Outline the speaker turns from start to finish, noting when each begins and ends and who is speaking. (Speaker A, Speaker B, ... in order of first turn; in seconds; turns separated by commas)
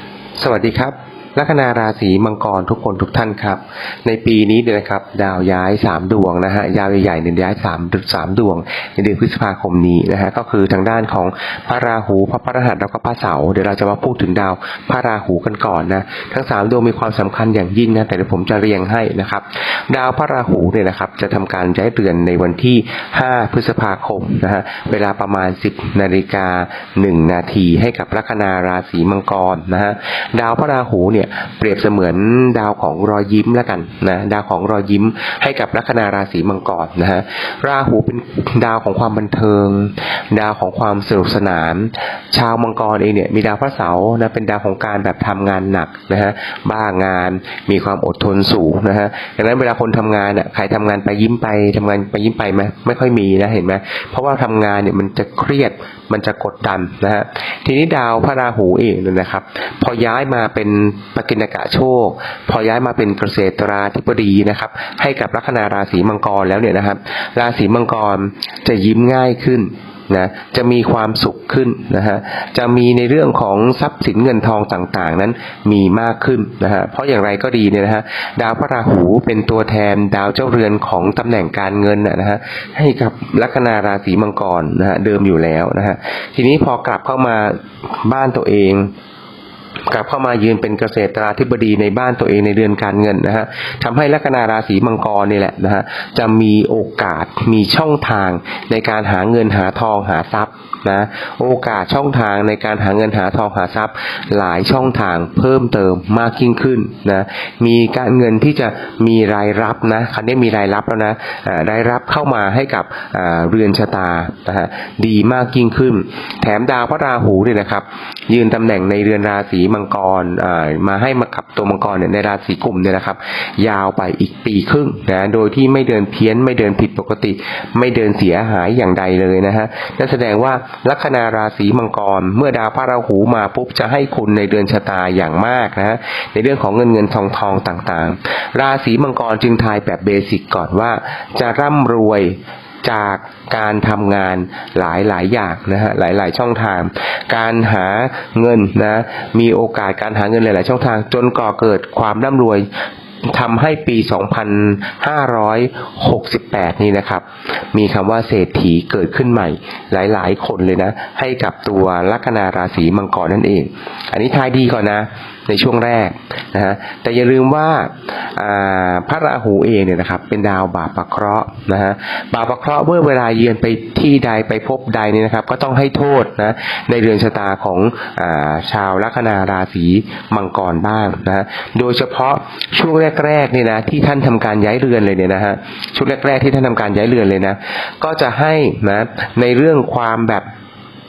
Speaker A: 0.4-88.9, Speaker A: 89.9-152.7, Speaker A: 153.2-190.4